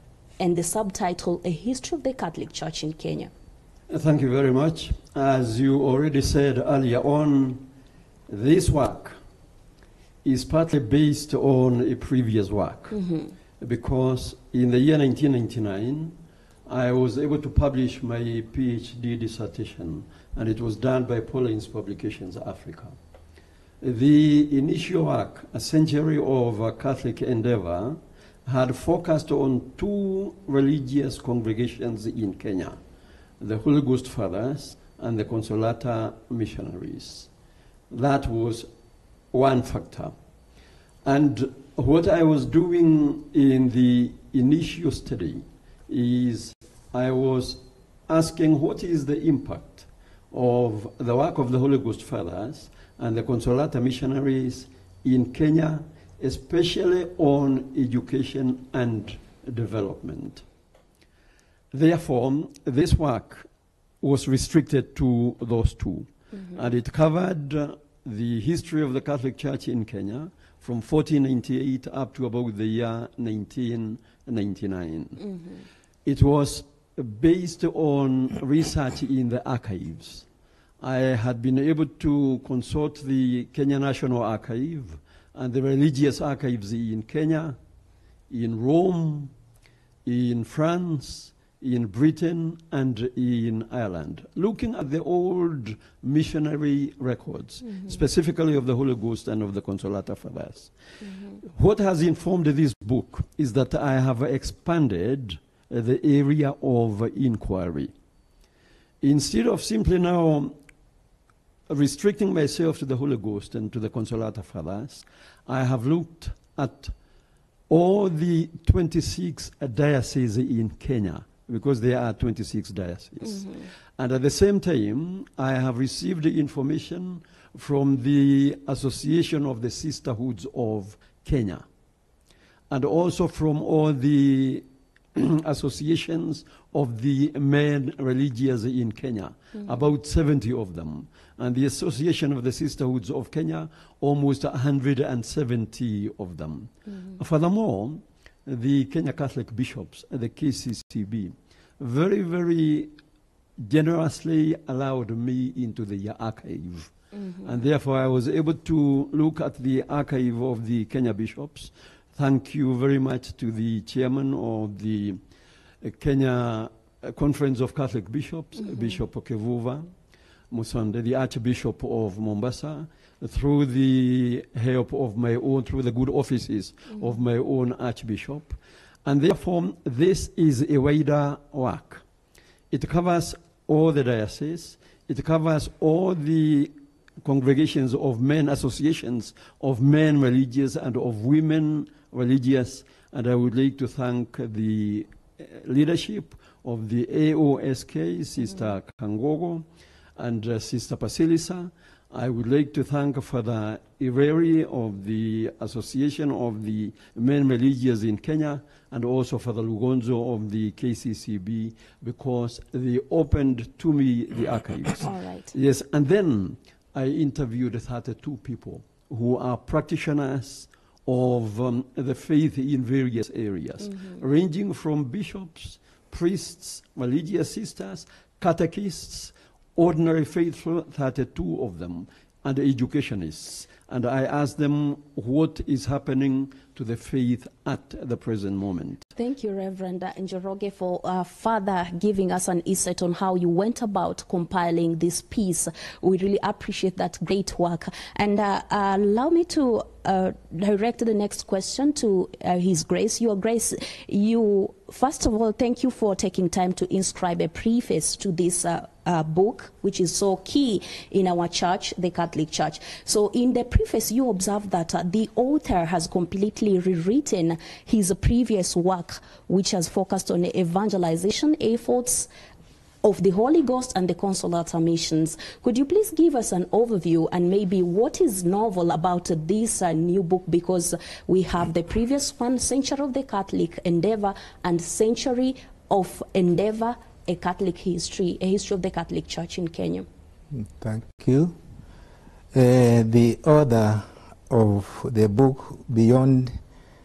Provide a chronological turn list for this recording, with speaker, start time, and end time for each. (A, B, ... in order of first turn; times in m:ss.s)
0:00.4-0:03.3 A
0:03.9-0:07.7 B
0:08.3-0:09.2 B
0:10.2-0:13.0 B
0:12.9-0:13.3 A
0:13.6-0:16.2 B
0:16.7-0:23.0 B
0:23.8-0:32.8 B
0:33.4-0:37.3 B
0:37.9-0:38.7 B
0:39.3-0:40.1 B
0:41.0-1:00.4 B
1:01.7-1:03.5 B
1:04.0-1:15.2 B
1:06.3-1:06.6 A
1:16.0-1:20.3 B
1:20.8-1:27.6 B
1:28.3-1:29.3 B
1:30.0-1:40.8 B
1:37.6-1:38.0 A
1:41.0-1:41.4 A
1:41.5-1:47.9 B
1:49.0-1:50.6 B
1:51.7-1:56.9 B
1:57.7-2:11.6 B
2:12.7-2:32.9 B
2:26.9-2:27.2 A
2:33.6-2:36.9 B
2:37.1-2:37.5 A
2:37.4-2:45.2 B
2:45.8-2:49.9 B
2:48.6-2:49.0 A
2:50.5-3:02.0 B
3:02.7-3:19.6 B
3:20.2-3:59.1 B
3:35.0-3:35.5 A
3:43.8-3:44.2 A
3:59.2-4:32.3 A
4:33.0-4:50.1 A
4:50.5-4:51.6 C
4:52.5-4:56.6 C